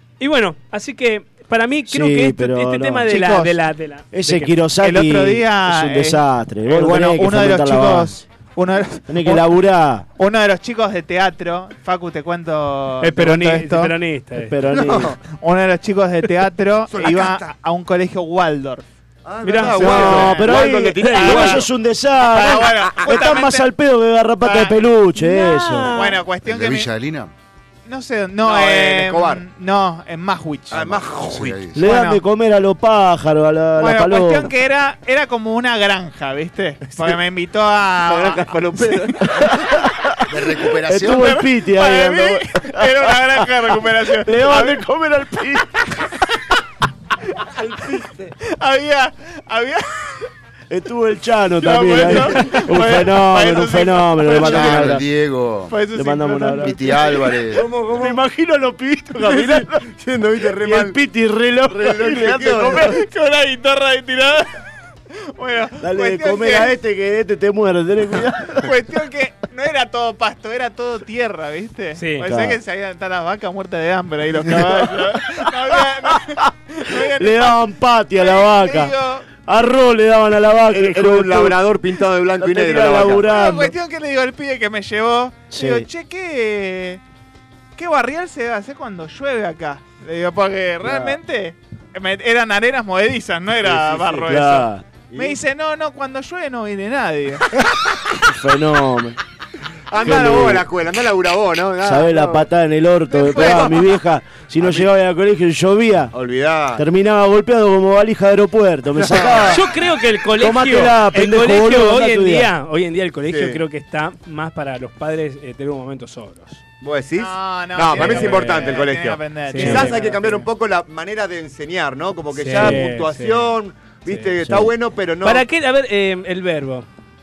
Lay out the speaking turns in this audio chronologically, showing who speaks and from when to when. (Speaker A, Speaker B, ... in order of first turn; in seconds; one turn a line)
Speaker A: 0.2-4.6
Speaker B: 1.9-3.1
Speaker C: 3.1-3.6
Speaker B: 4.1-8.2
Speaker C: 4.8-9.5
Speaker B: 9.1-10.1
Speaker C: 10.2-13.9
Speaker A: 13.0-14.6
Speaker B: 14.4-15.2
Speaker D: 14.7-15.2
Speaker C: 15.3-18.8
Speaker D: 16.9-17.5
Speaker D: 19.2-21.7
Speaker A: 19.4-20.4
Speaker C: 19.6-20.6
Speaker B: 19.9-26.0
Speaker A: 21.0-21.6
Speaker C: 22.2-23.7
Speaker D: 23.0-23.3
Speaker C: 24.4-24.8
Speaker A: 25.2-26.2
Speaker C: 25.9-26.9
Speaker E: 26.4-27.3
Speaker C: 27.9-30.9
Speaker D: 28.4-29.4
Speaker D: 30.7-31.7
Speaker E: 30.7-31.8
Speaker B: 31.7-34.5
Speaker C: 31.8-32.2
Speaker C: 33.8-39.2
Speaker D: 36.9-37.2
Speaker D: 38.0-39.5
Speaker B: 39.2-43.5
Speaker E: 40.3-41.4
Speaker C: 41.0-44.8
Speaker B: 44.1-45.9
Speaker D: 47.6-48.3
Speaker C: 48.4-50.3
Speaker B: 50.7-55.0
Speaker C: 51.6-55.0
Speaker E: 54.3-55.8
Speaker C: 55.7-57.4
Speaker B: 55.9-56.8
Speaker E: 56.6-57.7
Speaker D: 57.5-58.2
Speaker B: 58.0-59.8
Speaker D: 59.2-61.0
Speaker B: 60.6-63.0
Speaker D: 61.7-63.0
Speaker C: 62.8-64.6
Speaker C: 65.4-66.7
Speaker B: 65.8-68.7
Speaker C: 68.6-79.3
Speaker A: 72.0-72.3
Speaker B: 72.2-72.6
Speaker B: 74.4-75.5
Speaker B: 77.0-78.9
Speaker B: 79.5-81.6
Speaker D: 80.7-83.4
Speaker B: 82.4-83.7
Speaker C: 83.1-87.0
Speaker B: 85.5-85.9
Speaker C: 87.8-97.5
Speaker B: 90.8-91.2
Speaker D: 93.7-94.2
Speaker B: 94.3-95.0
Speaker B: 98.2-99.2
Speaker D: 99.9-102.5
Speaker B: 100.0-100.7
Speaker B: 101.8-106.1
Speaker C: 103.1-103.9
Speaker D: 103.2-103.9
Speaker D: 104.6-104.9
Speaker D: 106.1-106.8
Speaker B: 106.8-109.6
Speaker D: 109.0-109.6
Speaker A: 109.4-116.6
Speaker B: 110.3-112.5
Speaker D: 113.2-113.6
Speaker D: 116.8-125.5
Speaker C: 117.2-120.4
Speaker A: 118.0-118.6
Speaker A: 119.5-120.2
Speaker A: 122.3-123.5
Speaker B: 124.4-124.7
Speaker A: 125.2-126.9